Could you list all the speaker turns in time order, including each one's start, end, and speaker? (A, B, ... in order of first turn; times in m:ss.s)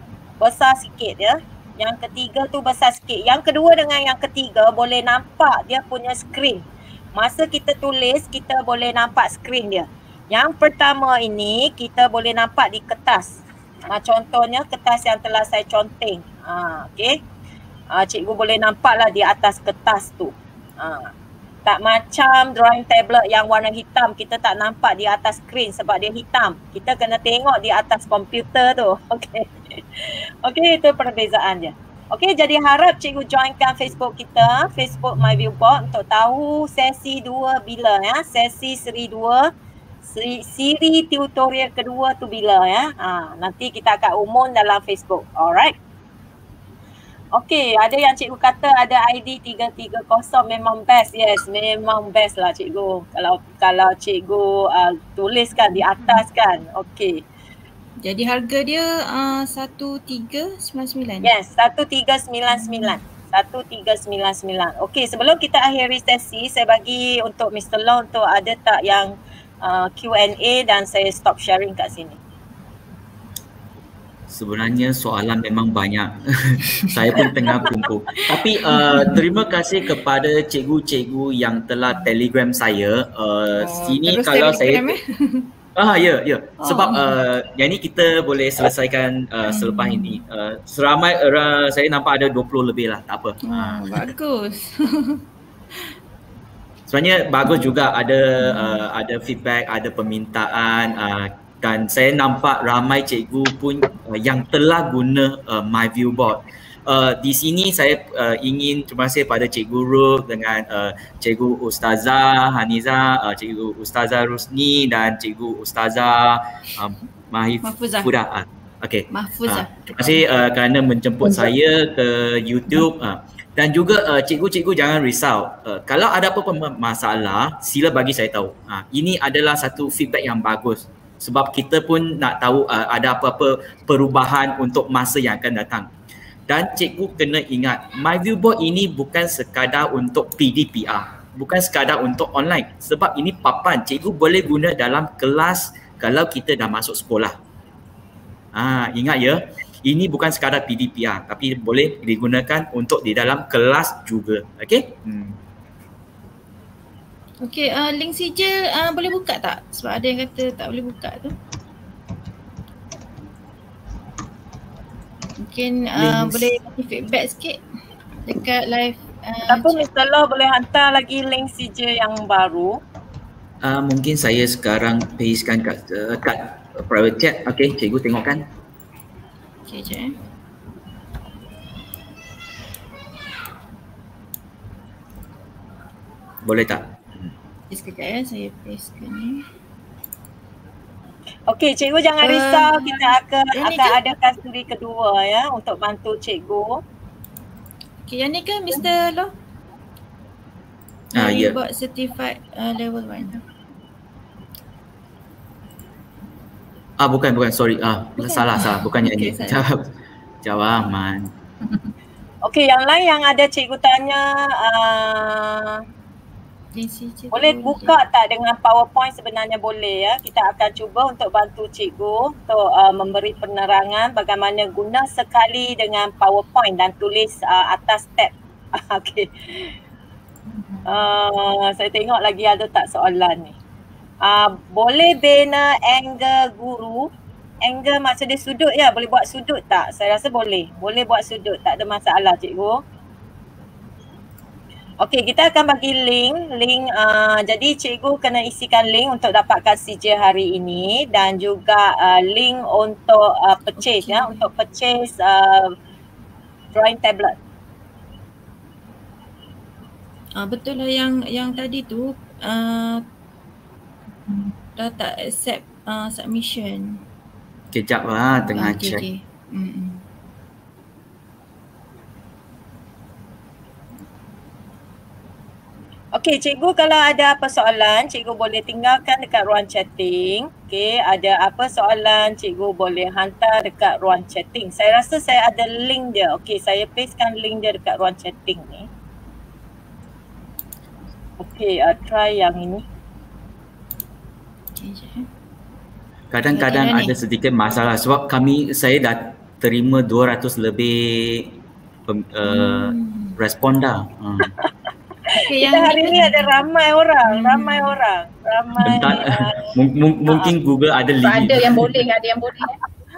0:00.4-0:17.2 A
0:17.9-0:21.1 A
0:21.6-0:39.5 A
0:40.0-0:45.8 A
0:47.3-0:57.2 A
0:58.0-1:01.3 B
1:01.2-1:12.2 A
1:02.6-1:02.9 B
1:14.3-1:25.0 C
1:18.7-1:19.2 B
1:23.6-1:25.5 B
1:25.8-1:34.1 C
1:26.6-1:27.2 B
1:29.5-1:30.2 B
1:33.5-1:35.2 B
1:36.9-2:15.9 C
1:38.4-1:38.8 B
1:57.6-1:58.1 B
1:59.1-2:00.2 B
2:16.5-2:27.4 C
2:28.5-2:35.4 C
2:37.4-2:41.3 B
2:45.4-2:47.6 B
2:46.0-2:46.5 C
2:48.2-2:49.8 B
2:49.5-2:52.8 A
2:53.6-2:58.4 C
2:59.7-3:00.1 B
3:06.4-3:07.3 C
3:07.7-3:09.4 B
3:11.5-3:16.8 A
3:12.2-3:14.0 B
3:18.1-3:19.3 B
3:21.1-3:21.6 C
3:21.2-3:23.4 B
3:27.0-3:29.8 C
3:28.2-3:29.6 B
3:30.4-3:31.3 C
3:32.4-3:35.8 A
3:36.7-3:38.0 B
3:37.3-3:49.7 A
3:50.5-3:51.0 D
3:50.8-3:53.6 A
3:54.2-3:57.1 A
3:57.6-4:02.8 A
4:05.0-4:15.7 A
4:13.8-4:14.5 B
4:16.7-4:17.4 A
4:20.4-4:23.0 B
4:24.8-4:27.0 B
4:27.7-4:29.0 C
4:28.5-4:30.0 B
4:36.2-4:48.9 A
4:51.4-4:52.8 A
4:54.8-4:55.3 B
4:56.3-5:04.5 C
4:56.5-4:57.2 B
5:02.5-5:03.4 B
5:05.3-5:09.7 A
5:05.4-5:06.6 B
5:07.3-5:08.0 B
5:08.8-5:12.0 C
5:11.2-5:12.8 D